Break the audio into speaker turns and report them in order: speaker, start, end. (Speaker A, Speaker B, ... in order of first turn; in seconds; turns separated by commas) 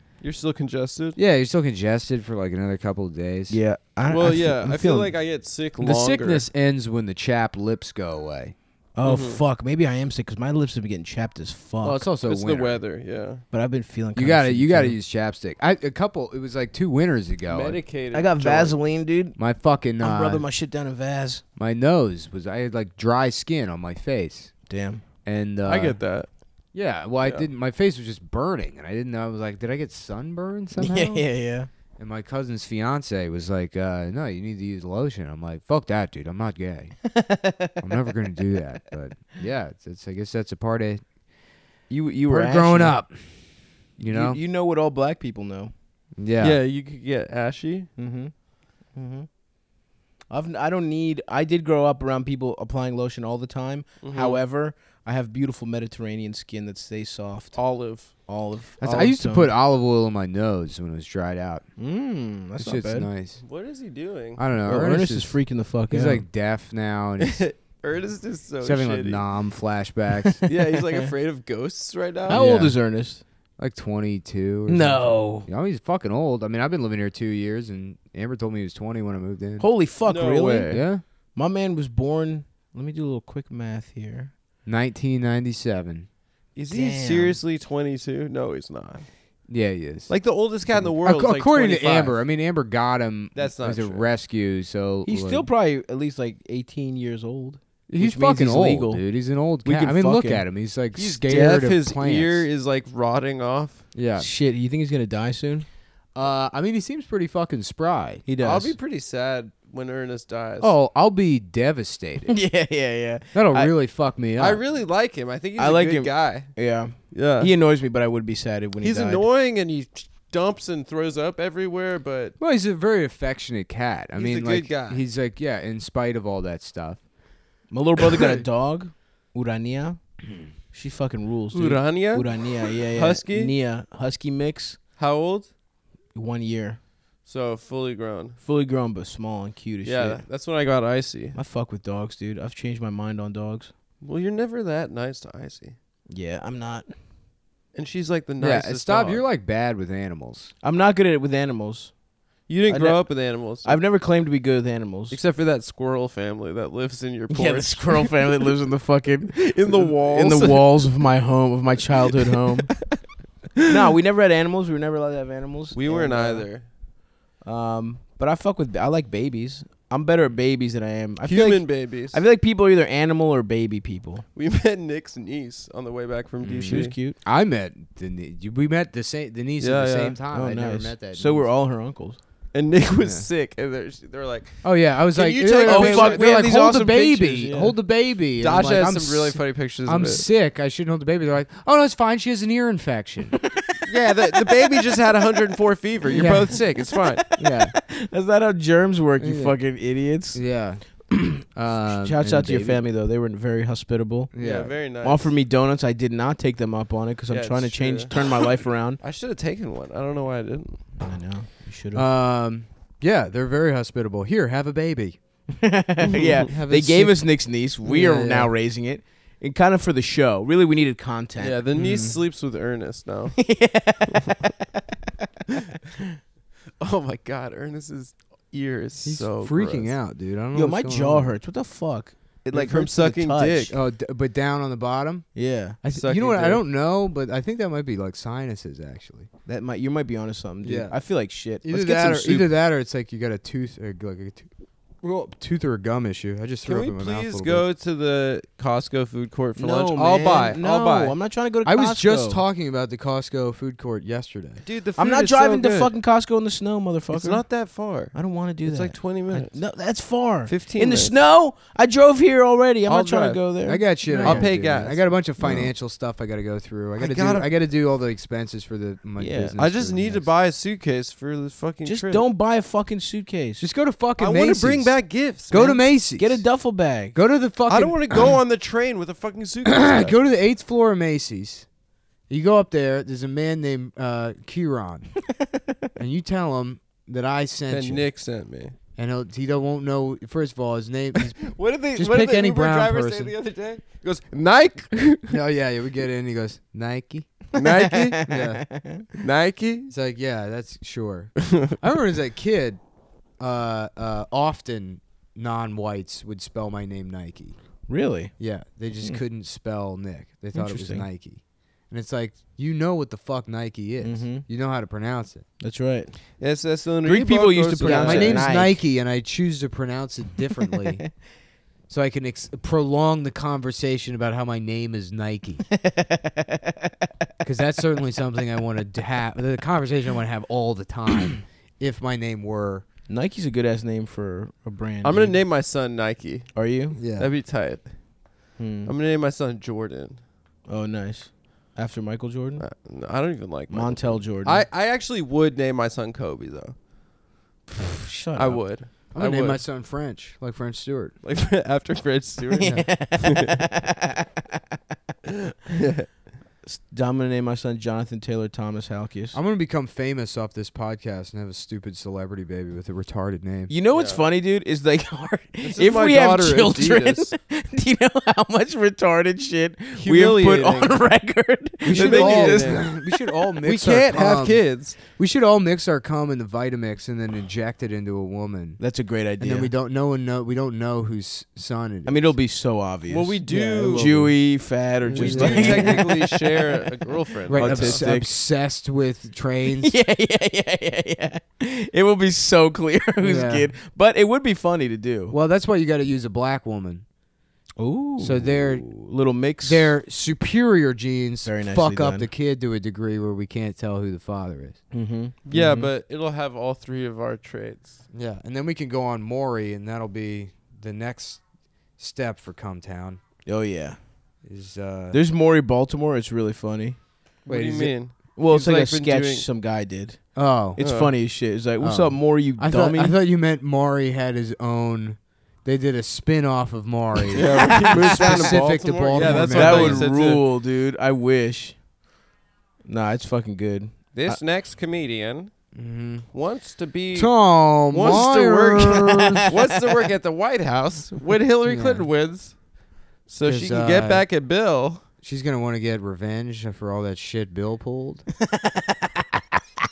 Speaker A: 0.2-1.2, Speaker B: 1.1-3.6, Speaker C: 3.5-5.1, Speaker A: 4.1-6.5, Speaker B: 5.8-8.5, Speaker C: 8.9-12.1, Speaker A: 9.0-9.4, Speaker B: 11.8-12.8, Speaker A: 12.2-13.4, Speaker C: 13.5-15.0, Speaker B: 14.1-17.8, Speaker A: 17.5-18.8, Speaker C: 18.1-19.4, Speaker B: 19.4-20.5, Speaker C: 20.0-21.4, Speaker B: 21.6-24.6, Speaker C: 24.7-25.0, Speaker B: 25.2-26.0, Speaker A: 25.6-26.3, Speaker B: 26.7-31.3, Speaker C: 30.8-31.7, Speaker B: 32.0-37.1, Speaker C: 37.1-37.8, Speaker B: 37.8-41.0, Speaker C: 41.9-43.0, Speaker B: 42.3-44.4, Speaker C: 44.1-45.7, Speaker B: 46.2-46.6, Speaker A: 46.4-47.9, Speaker C: 48.0-48.3, Speaker C: 48.9-49.3, Speaker C: 50.3-59.5, Speaker A: 54.0-54.4, Speaker A: 57.5-58.1, Speaker B: 58.8-61.6, Speaker C: 61.8-63.1, Speaker B: 62.6-63.4, Speaker A: 63.4-64.4, Speaker B: 64.4-67.4, Speaker C: 64.6-66.2, Speaker A: 67.2-69.2, Speaker B: 68.6-70.4, Speaker C: 70.4-71.1, Speaker A: 70.5-72.4, Speaker C: 72.3-73.2, Speaker B: 72.3-72.8, Speaker B: 73.6-79.7, Speaker C: 74.7-75.5, Speaker C: 79.6-84.3, Speaker A: 80.0-80.8, Speaker B: 80.7-81.0, Speaker B: 84.7-86.1, Speaker A: 86.5-89.1, Speaker C: 86.7-87.4, Speaker B: 89.5-95.5, Speaker A: 90.1-92.2, Speaker A: 93.3-94.0, Speaker C: 95.0-99.0, Speaker B: 97.9-102.5, Speaker C: 99.6-100.4, Speaker A: 101.0-103.8, Speaker B: 103.9-104.3, Speaker C: 104.2-105.7, Speaker B: 106.1-108.2, Speaker C: 108.2-108.8, Speaker A: 108.4-110.7, Speaker B: 110.6-112.4, Speaker C: 112.3-113.7, Speaker B: 113.3-114.6, Speaker A: 114.4-117.5, Speaker C: 115.6-119.2, Speaker A: 118.8-122.3, Speaker B: 122.4-127.0, Speaker A: 124.2-125.0, Speaker C: 127.7-134.8, Speaker A: 131.5-133.6, Speaker A: 135.0-135.5, Speaker C: 136.1-136.8, Speaker A: 137.2-138.4, Speaker C: 138.4-140.2, Speaker A: 139.8-141.4, Speaker C: 141.3-143.7, Speaker A: 144.0-145.8, Speaker C: 146.1-146.9, Speaker A: 147.7-149.2, Speaker B: 148.4-150.5, Speaker C: 150.6-151.9, Speaker A: 152.5-153.8, Speaker C: 152.7-155.2, Speaker A: 155.1-158.5, Speaker C: 157.3-162.8, Speaker A: 159.3-160.8, Speaker C: 163.7-166.5, Speaker A: 165.7-166.7, Speaker C: 167.4-174.2, Speaker A: 171.2-172.2, Speaker A: 174.3-176.9, Speaker B: 176.4-181.5, Speaker C: 176.7-177.2, Speaker A: 179.6-180.2, Speaker C: 180.3-182.2, Speaker A: 182.5-186.3, Speaker B: 183.0-183.3, Speaker B: 184.6-193.4, Speaker C: 185.6-187.8, Speaker A: 188.4-190.2, Speaker A: 193.8-197.3, Speaker B: 196.1-196.5, Speaker B: 197.4-197.7, Speaker C: 197.4-200.4, Speaker B: 199.2-199.6, Speaker B: 200.3-202.8, Speaker C: 201.8-209.0, Speaker B: 204.3-204.7, Speaker A: 204.4-205.3, Speaker A: 207.3-208.3, Speaker A: 209.0-211.0, Speaker C: 211.0-212.1, Speaker B: 211.9-215.2, Speaker C: 215.6-222.2, Speaker B: 216.5-218.5, Speaker A: 221.4-223.5, Speaker C: 223.4-224.5, Speaker A: 226.8-229.9, Speaker B: 229.0-231.3, Speaker C: 230.5-233.7, Speaker A: 232.5-233.7, Speaker B: 233.7-239.3, Speaker C: 235.3-235.8, Speaker A: 235.9-236.6, Speaker C: 239.4-242.5, Speaker B: 240.6-241.0, Speaker B: 241.6-244.5, Speaker B: 245.0-247.7, Speaker A: 246.7-251.2, Speaker C: 249.6-252.4, Speaker B: 251.6-254.6, Speaker A: 254.6-255.9, Speaker C: 255.0-257.4, Speaker A: 257.1-259.6, Speaker C: 258.1-264.5, Speaker A: 260.5-261.1, Speaker A: 262.9-263.4, Speaker B: 263.6-270.3, Speaker A: 264.1-265.1, Speaker C: 265.4-265.7, Speaker A: 267.0-267.5, Speaker C: 269.2-269.5, Speaker A: 269.6-272.2, Speaker C: 271.8-273.6, Speaker B: 273.6-276.4, Speaker A: 274.2-275.8, Speaker C: 276.0-277.2, Speaker B: 277.1-278.2, Speaker A: 277.7-280.1, Speaker B: 279.6-281.7, Speaker B: 282.3-285.1, Speaker B: 285.9-288.0, Speaker A: 287.7-288.8, Speaker B: 289.0-293.3, Speaker A: 291.4-295.4, Speaker B: 295.3-297.4, Speaker A: 297.5-298.3, Speaker C: 297.6-299.0, Speaker B: 298.3-298.6, Speaker A: 299.2-299.9, Speaker B: 299.9-302.8, Speaker B: 303.4-307.6, Speaker C: 307.9-308.3, Speaker B: 308.4-315.4, Speaker C: 310.5-311.1, Speaker C: 314.0-314.4, Speaker C: 315.6-316.2, Speaker A: 316.4-318.5, Speaker C: 317.0-318.8, Speaker B: 317.8-321.1, Speaker B: 321.9-325.6, Speaker C: 325.7-327.1, Speaker B: 327.4-332.8, Speaker C: 333.1-335.4, Speaker A: 335.0-337.9, Speaker C: 336.5-337.0, Speaker B: 336.9-337.3, Speaker C: 338.6-338.9, Speaker A: 338.8-340.2, Speaker C: 340.7-342.6, Speaker A: 342.6-346.8, Speaker C: 343.7-344.6, Speaker C: 347.9-348.6, Speaker A: 348.3-349.6, Speaker B: 349.1-351.1, Speaker A: 351.2-353.6, Speaker C: 352.4-354.6, Speaker B: 352.6-352.9, Speaker A: 355.6-356.1, Speaker C: 356.6-359.4, Speaker B: 359.3-363.7, Speaker C: 363.7-373.1, Speaker A: 363.9-364.2, Speaker A: 365.6-367.3, Speaker A: 370.0-371.0, Speaker B: 371.8-378.8, Speaker A: 371.9-372.9, Speaker A: 373.6-375.0, Speaker C: 378.8-379.7, Speaker B: 379.4-382.3, Speaker C: 382.1-386.9, Speaker A: 383.1-384.2, Speaker B: 383.5-384.4, Speaker B: 385.0-386.0, Speaker A: 385.1-388.0, Speaker B: 387.5-389.9, Speaker C: 387.5-388.3, Speaker C: 389.8-395.3, Speaker B: 393.2-393.7, Speaker B: 395.3-397.0, Speaker C: 397.8-399.9, Speaker B: 398.2-398.9, Speaker B: 399.6-404.8, Speaker C: 401.4-402.3, Speaker C: 404.9-405.9, Speaker A: 405.5-408.0, Speaker B: 408.1-411.4, Speaker B: 412.0-413.2, Speaker C: 413.4-414.0, Speaker B: 414.4-415.2, Speaker C: 415.1-417.0, Speaker A: 417.4-419.5, Speaker B: 417.5-417.9, Speaker C: 418.4-423.1, Speaker B: 420.3-420.8, Speaker A: 420.8-421.1, Speaker B: 421.8-430.1, Speaker A: 427.3-430.4, Speaker C: 427.5-431.8, Speaker C: 432.8-434.4, Speaker A: 434.1-435.5, Speaker B: 435.7-436.2, Speaker A: 436.3-442.6, Speaker B: 437.1-439.5, Speaker B: 441.6-442.1, Speaker A: 443.3-445.0, Speaker B: 443.4-444.2, Speaker B: 445.2-448.2, Speaker C: 448.4-449.4